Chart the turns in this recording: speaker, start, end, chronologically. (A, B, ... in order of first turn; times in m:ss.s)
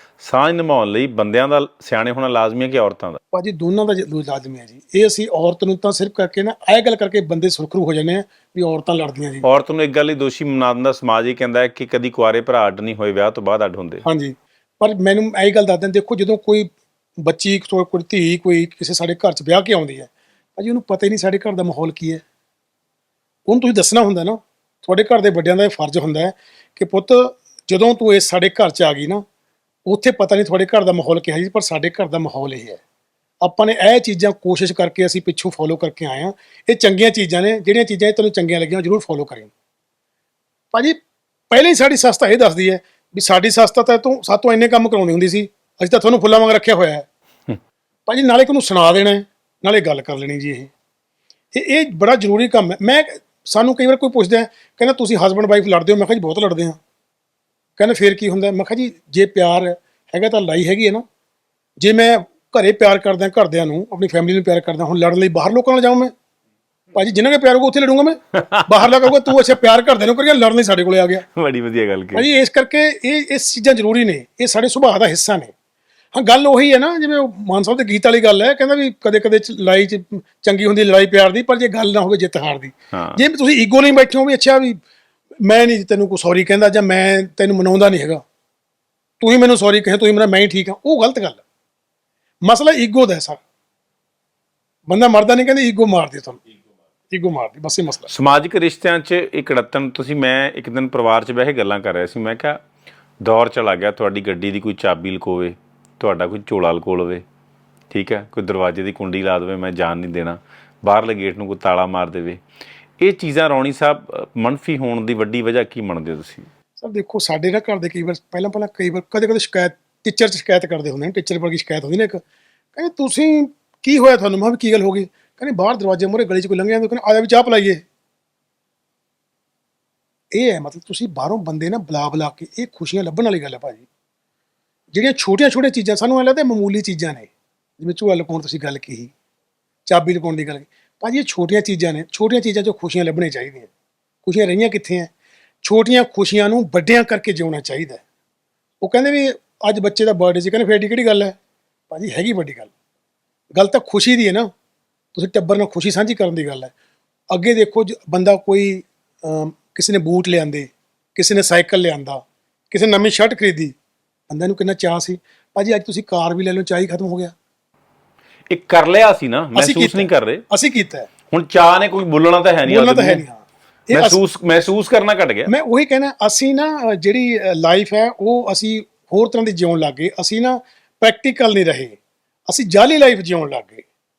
0:00.2-0:03.2 A
0:03.3-0:09.4 B
0:09.4-0:14.0 A
0:14.0-0:22.2 B
0:23.5-0:29.2 B
0:29.9-0:32.8 B
0:33.4-0:39.5 B
0:41.5-0:47.0 B
0:48.1-0:50.7 B
0:51.5-0:56.8 B
0:57.8-1:01.0 B
1:01.8-1:06.1 B
1:06.9-1:11.2 B
1:08.5-1:09.1 A
1:11.4-1:12.2 A
1:12.1-1:15.5 B
1:16.1-1:24.8 B
1:22.9-1:23.2 A
1:25.4-1:28.2 B
1:29.2-1:31.4 B
1:32.4-1:33.4 B
1:34.9-1:36.4 B
1:37.1-1:38.1 B
1:38.1-1:42.6 A
1:43.2-1:47.2 A
1:47.9-1:52.4 A
1:53.0-1:56.5 A
1:56.8-2:02.2 B
2:02.8-2:07.8 B
2:10.3-2:13.8 B
2:14.9-2:19.1 B
2:19.9-2:23.7 B
2:24.2-2:25.1 B
2:25.6-2:28.0 B
2:28.8-2:31.4 B
2:31.9-2:32.7 B
2:33.5-2:34.5 B
2:35.1-2:36.7 B
2:37.3-2:43.7 B
2:44.3-2:47.3 B
2:48.5-2:50.4 A
2:49.6-2:51.1 B
2:51.3-2:53.2 A
2:52.7-2:54.2 B
2:53.9-2:55.5 A
2:55.5-3:03.8 B